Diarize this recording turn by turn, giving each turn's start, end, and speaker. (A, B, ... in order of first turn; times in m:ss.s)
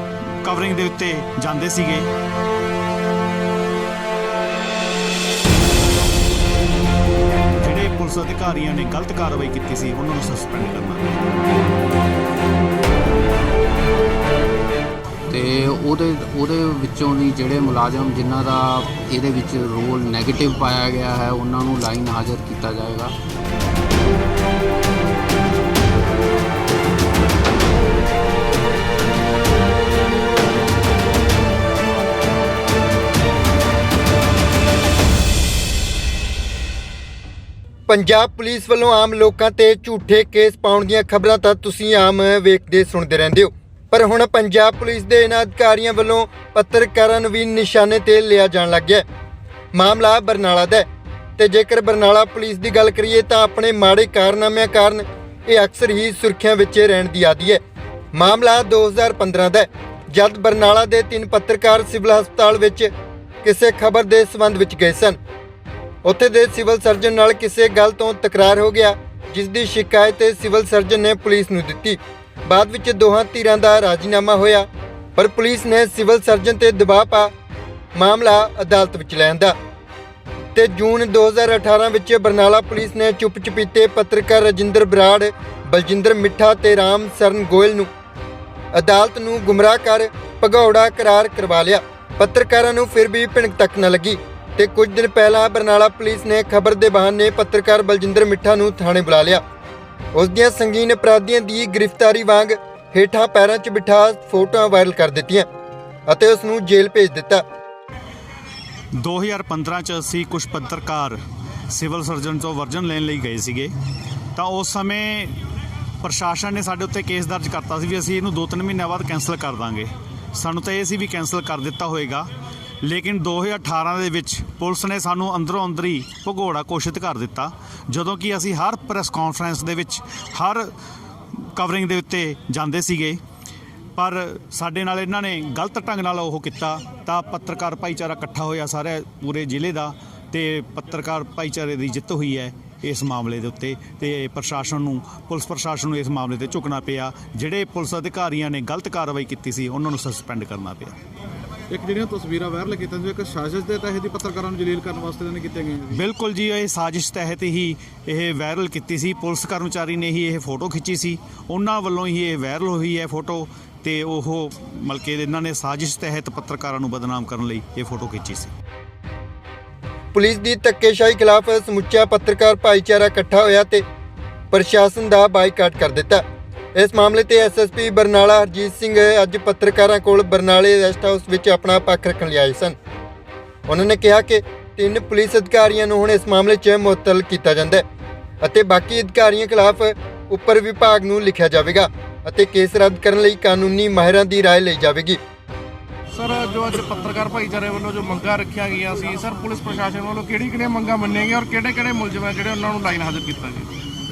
0:00.4-0:02.1 A
0:07.6-0:11.1 A
0:15.3-0:23.2 B
0:37.9-0:49.0 C
0:49.7-0:50.9 C
0:51.4-0:57.6 C
0:58.2-1:02.9 C
1:03.4-1:05.2 C
1:06.0-1:17.3 C
1:18.0-1:19.5 C
1:20.6-1:27.9 C
1:28.7-1:39.4 C
1:40.1-1:45.5 C
1:46.1-1:47.4 C
1:49.0-1:51.2 A
1:51.7-1:53.7 A
1:54.4-1:55.4 A
1:56.0-2:02.3 A
2:02.8-2:10.7 A
2:11.6-2:13.2 A
2:14.0-2:31.0 A
2:31.7-2:36.0 D
2:35.9-2:48.5 A
2:50.1-2:53.8 C
2:54.5-2:56.2 C
2:56.8-3:02.8 C
3:03.7-3:07.8 C
3:08.4-3:15.2 C
3:16.1-3:23.7 E